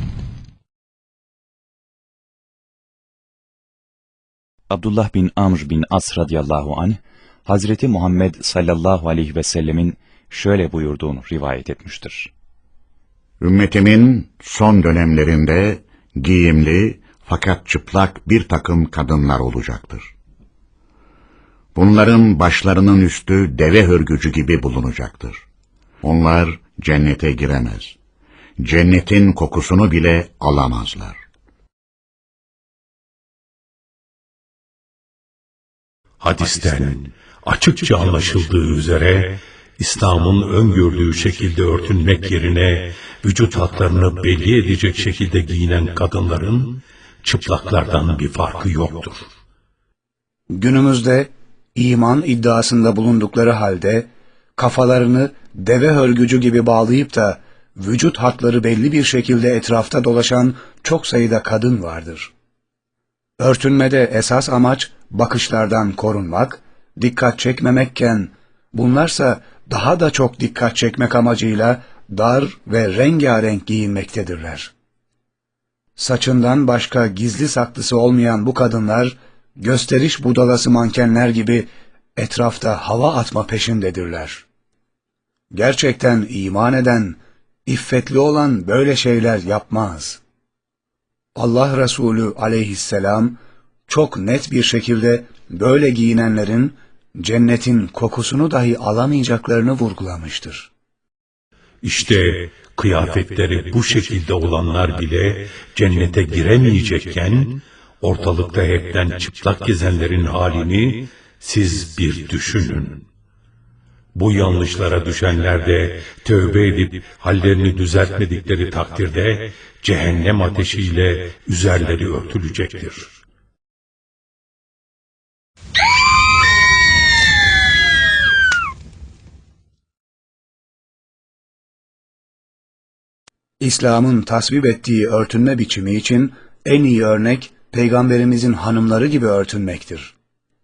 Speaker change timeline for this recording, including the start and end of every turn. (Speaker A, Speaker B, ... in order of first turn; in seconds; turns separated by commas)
Speaker A: 4.7-12.3, Speaker B: 13.4-20.1, Speaker B: 21.8-25.4, Speaker B: 26.0-27.9, Speaker B: 28.6-31.2, Speaker C: 36.2-49.2, Speaker D: 50.5-62.3, Speaker D: 63.4-74.7, Speaker D: 76.0-84.4, Speaker D: 85.5-90.2, Speaker D: 91.4-100.7, Speaker C: 101.8-113.0, Speaker C: 114.2-123.1, Speaker D: 133.6-140.1